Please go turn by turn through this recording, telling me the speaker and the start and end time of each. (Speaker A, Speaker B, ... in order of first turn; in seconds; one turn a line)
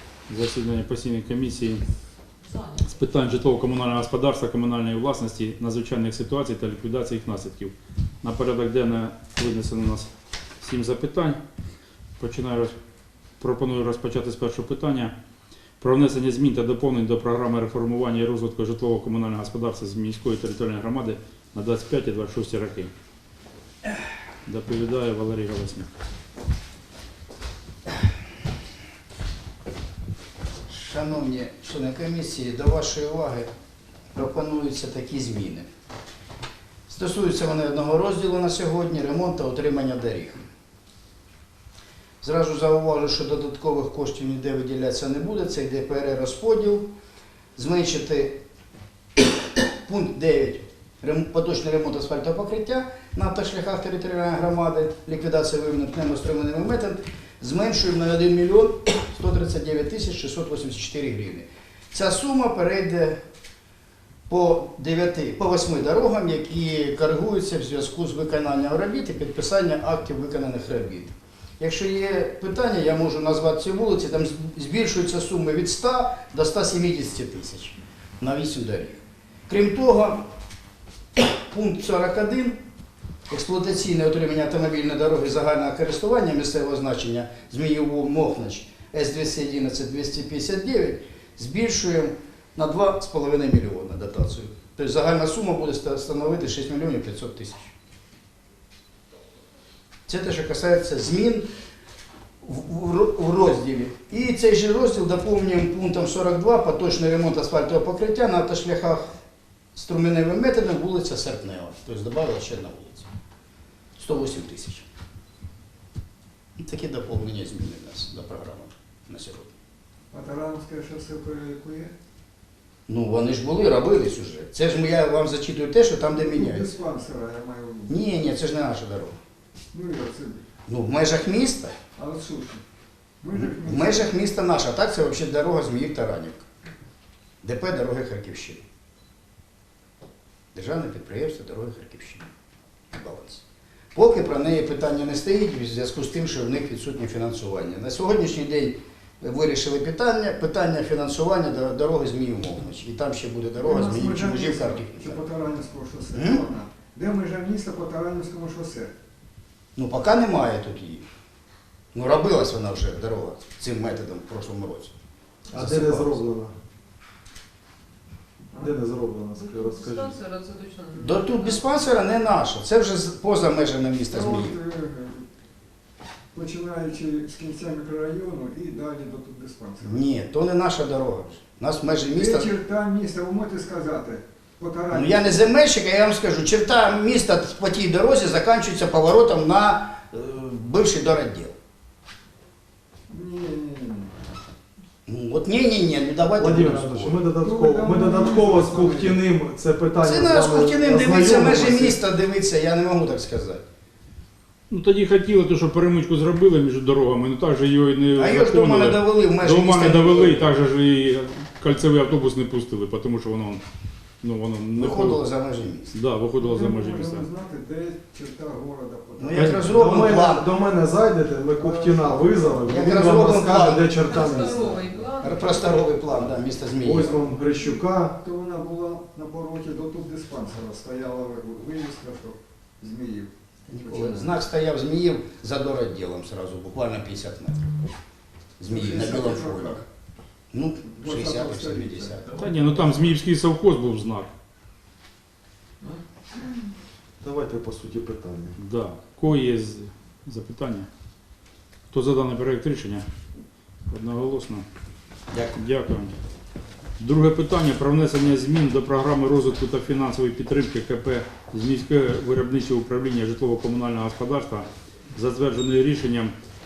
Speaker A: 0.3-1.8
Speaker B: 2.4-2.9
Speaker A: 2.8-10.1
Speaker A: 10.6-11.4
Speaker A: 12.2-12.7
Speaker A: 13.4-15.1
Speaker A: 15.8-22.9
Speaker A: 24.5-25.9
Speaker C: 30.7-33.5
Speaker C: 34.1-35.7
Speaker C: 36.9-40.5
Speaker C: 42.2-47.0
Speaker C: 47.6-48.4
Speaker C: 49.8-63.2
Speaker C: 64.3-80.2
Speaker C: 81.2-82.6
Speaker C: 83.3-97.7
Speaker C: 100.1-101.5
Speaker C: 102.4-109.1
Speaker C: 109.8-113.1
Speaker C: 114.0-114.8
Speaker C: 116.6-119.5
Speaker D: 120.1-122.0
Speaker C: 122.9-126.7
Speaker D: 126.1-127.9
Speaker C: 127.9-129.2
Speaker D: 129.7-130.5
Speaker C: 130.7-131.8
Speaker D: 132.0-132.6
Speaker D: 133.2-134.1
Speaker C: 133.3-136.4
Speaker C: 137.4-138.6
Speaker C: 140.5-142.3
Speaker C: 142.9-143.4
Speaker C: 143.9-155.2
Speaker D: 153.6-158.9
Speaker C: 156.1-156.4
Speaker C: 159.8-161.1
Speaker C: 161.9-164.9
Speaker E: 165.5-166.5
Speaker C: 165.5-166.2
Speaker E: 168.6-170.2
Speaker B: 169.4-171.9
Speaker C: 171.0-174.6
Speaker D: 174.1-175.2
Speaker D: 176.3-180.0
Speaker C: 179.8-182.5
Speaker D: 182.1-185.6
Speaker C: 184.9-191.6
Speaker D: 193.1-194.1
Speaker C: 195.1-197.2
Speaker E: 196.4-202.0
Speaker D: 197.3-199.2
Speaker C: 200.0-203.7
Speaker A: 204.7-213.6
Speaker C: 208.2-210.5
Speaker A: 214.2-215.2
Speaker C: 214.8-215.9
Speaker A: 215.9-217.3
Speaker D: 216.4-219.7
Speaker C: 219.2-220.5
Speaker E: 219.6-224.8
Speaker D: 221.6-222.2
Speaker C: 222.6-224.0
Speaker B: 223.9-225.9
Speaker C: 225.2-227.2
Speaker E: 226.8-228.2
Speaker D: 228.2-234.3
Speaker C: 233.7-237.7
Speaker C: 238.6-239.8
Speaker D: 238.7-239.8
Speaker C: 240.5-242.7
Speaker D: 240.9-242.5
Speaker A: 242.4-244.3
Speaker E: 247.2-248.6
Speaker A: 248.6-250.9
Speaker A: 251.9-253.1
Speaker A: 253.9-254.7
Speaker A: 255.5-256.2
Speaker A: 257.0-266.3